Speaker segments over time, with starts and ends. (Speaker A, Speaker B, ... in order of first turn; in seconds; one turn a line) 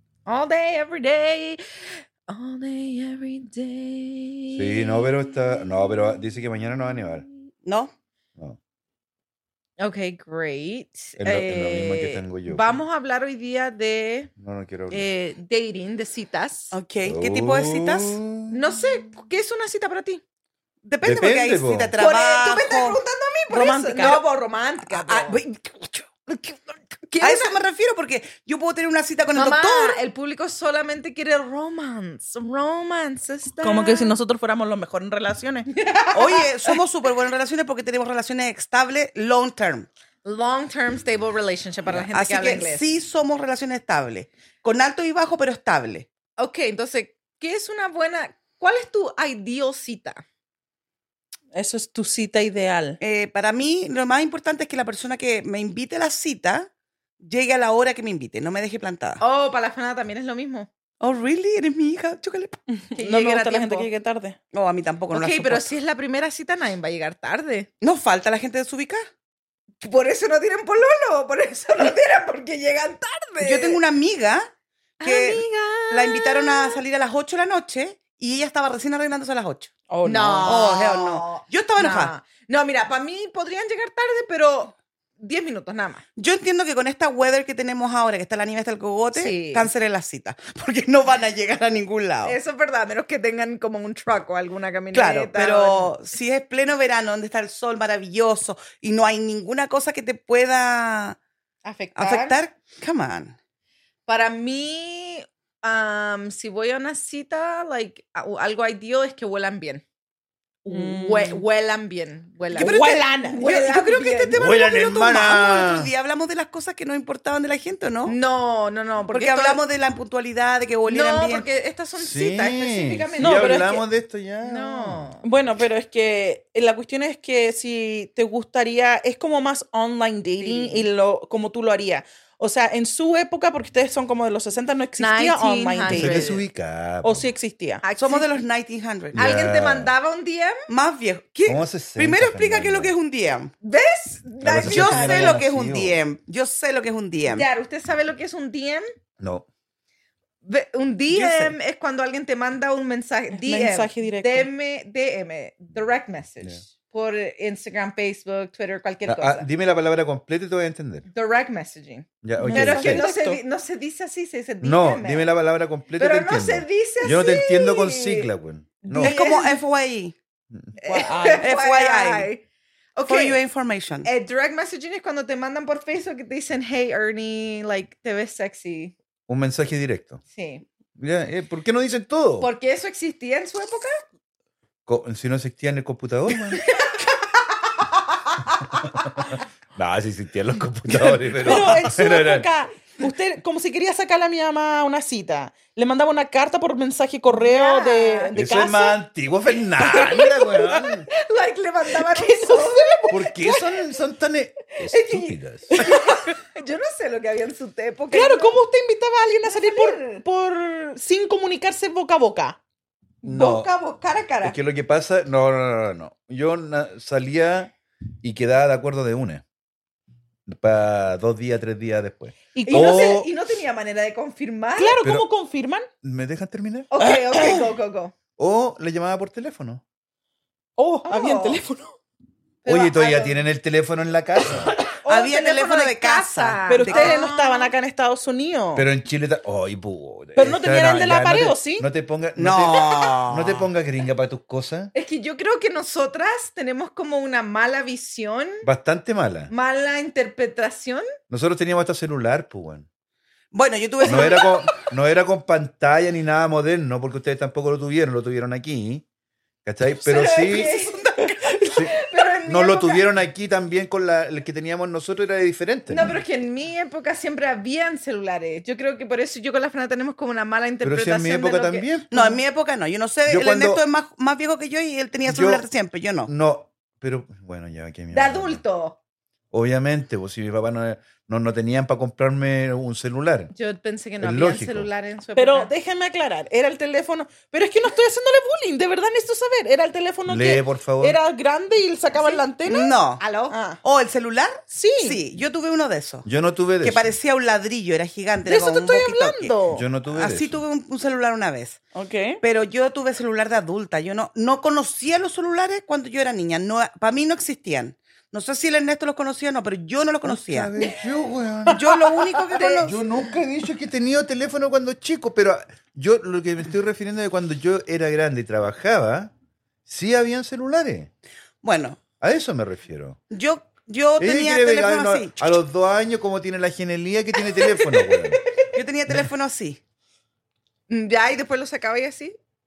Speaker A: 0.3-5.1
Speaker B: 4.5-7.3
Speaker C: 7.6-7.9
Speaker A: 9.8-14.3
Speaker B: 11.2-12.8
Speaker B: 14.4-15.1
Speaker A: 14.9-16.8
Speaker C: 16.7-18.2
Speaker B: 17.1-18.8
Speaker A: 18.5-20.2
Speaker C: 20.8-23.0
Speaker B: 21.0-21.9
Speaker A: 22.0-25.4
Speaker D: 23.5-24.2
Speaker C: 24.9-26.1
Speaker A: 26.3-27.6
Speaker C: 27.2-30.0
Speaker A: 29.3-34.1
Speaker D: 33.6-35.7
Speaker A: 35.7-36.8
Speaker C: 36.1-39.9
Speaker A: 40.2-42.9
Speaker C: 41.9-46.1
Speaker A: 46.4-50.2
Speaker D: 51.5-53.0
Speaker C: 53.0-56.7
Speaker C: 57.2-59.2
Speaker A: 59.2-60.7
Speaker C: 61.0-62.6
Speaker D: 62.7-64.4
Speaker A: 63.0-63.9
Speaker C: 64.5-65.7
Speaker A: 65.1-67.7
Speaker C: 67.8-69.1
Speaker A: 69.8-73.8
Speaker C: 73.4-74.5
Speaker A: 75.0-76.8
Speaker C: 75.0-79.7
Speaker D: 79.9-80.5
Speaker A: 80.0-86.0
Speaker C: 80.5-82.1
Speaker C: 86.2-92.4
Speaker A: 89.1-89.7
Speaker A: 92.2-95.9
Speaker C: 94.9-101.2
Speaker A: 101.7-102.4
Speaker C: 102.0-103.3
Speaker A: 104.1-109.8
Speaker A: 110.6-114.4
Speaker D: 110.7-111.4
Speaker D: 112.5-113.4
Speaker C: 112.6-118.2
Speaker B: 114.3-115.9
Speaker A: 118.1-119.6
Speaker C: 119.1-121.5
Speaker A: 120.9-123.7
Speaker B: 122.0-125.1
Speaker D: 123.2-123.8
Speaker A: 124.4-125.2
Speaker D: 125.2-136.4
Speaker A: 130.4-130.9
Speaker A: 135.0-136.4
Speaker B: 135.9-137.3
Speaker D: 137.0-137.8
Speaker A: 137.8-138.3
Speaker C: 138.0-139.2
Speaker B: 139.1-139.9
Speaker A: 139.2-140.7
Speaker C: 140.7-143.5
Speaker B: 141.5-142.9
Speaker A: 143.6-145.4
Speaker B: 144.4-146.0
Speaker C: 144.6-147.5
Speaker A: 147.3-148.9
Speaker B: 149.2-149.5
Speaker A: 150.4-159.5
Speaker B: 151.1-151.5
Speaker D: 153.3-154.5
Speaker B: 159.1-161.1
Speaker A: 161.1-165.3
Speaker B: 162.2-163.1
Speaker D: 162.4-163.4
Speaker B: 164.6-169.2
Speaker A: 166.0-168.3
Speaker A: 168.8-169.6
Speaker C: 169.0-170.2
Speaker A: 170.8-172.4
Speaker D: 170.9-171.4
Speaker C: 171.3-172.3
Speaker A: 173.0-173.4
Speaker C: 173.1-174.1
Speaker A: 174.1-178.9
Speaker B: 179.3-180.2
Speaker A: 180.3-180.6
Speaker B: 181.0-182.5
Speaker A: 182.4-184.0
Speaker B: 184.9-186.6
Speaker A: 186.6-188.9
Speaker B: 188.8-192.5
Speaker D: 191.4-199.0
Speaker A: 197.3-198.3
Speaker B: 198.3-201.1
Speaker D: 199.9-200.5
Speaker A: 201.1-203.1
Speaker D: 202.0-203.7
Speaker B: 203.1-205.8
Speaker A: 204.8-208.6
Speaker D: 205.8-206.1
Speaker D: 208.1-212.6
Speaker A: 209.5-210.2
Speaker A: 213.2-214.6
Speaker B: 213.2-213.7
Speaker B: 214.4-219.4
Speaker B: 220.5-223.3
Speaker D: 222.6-223.2
Speaker A: 222.7-225.0
Speaker D: 224.8-225.9
Speaker B: 226.0-226.9
Speaker A: 226.9-228.2
Speaker D: 227.0-227.7
Speaker B: 228.4-229.8
Speaker D: 230.8-231.9
Speaker A: 231.1-231.6
Speaker A: 232.6-233.4
Speaker B: 232.7-234.7
Speaker A: 235.0-237.7
Speaker C: 235.1-237.2
Speaker D: 236.7-238.8
Speaker B: 238.8-244.9
Speaker D: 240.4-241.9
Speaker C: 242.4-243.7
Speaker A: 244.9-248.7
Speaker B: 248.6-249.5
Speaker A: 249.5-251.1
Speaker B: 251.3-252.9
Speaker C: 253.5-254.7
Speaker B: 254.0-259.1
Speaker B: 259.6-260.8
Speaker A: 260.0-263.0
Speaker B: 261.7-266.2
Speaker A: 265.9-272.4
Speaker B: 270.8-272.1
Speaker C: 272.1-276.3
Speaker B: 273.3-273.8
Speaker B: 275.3-275.7
Speaker B: 276.3-278.6
Speaker A: 278.1-279.0
Speaker B: 279.5-283.5
Speaker A: 283.5-285.7
Speaker B: 284.2-284.9
Speaker D: 285.4-292.9
Speaker B: 290.3-291.2
Speaker A: 292.1-292.4
Speaker C: 292.7-293.2
Speaker A: 293.2-293.6
Speaker D: 293.5-293.8
Speaker C: 293.8-296.3
Speaker D: 294.7-295.2
Speaker B: 296.2-297.2
Speaker C: 296.8-299.6
Speaker D: 298.5-299.9
Speaker B: 299.7-300.6
Speaker C: 300.1-301.8
Speaker D: 301.9-302.4
Speaker C: 302.4-310.7
Speaker B: 310.2-311.8
Speaker C: 311.7-313.0
Speaker A: 312.5-313.0
Speaker B: 312.8-319.3
Speaker B: 319.9-321.1
Speaker C: 321.6-322.0
Speaker B: 322.2-323.2
Speaker C: 323.3-325.4
Speaker B: 324.2-328.4
Speaker A: 327.6-328.8
Speaker C: 328.7-329.8
Speaker A: 330.9-332.4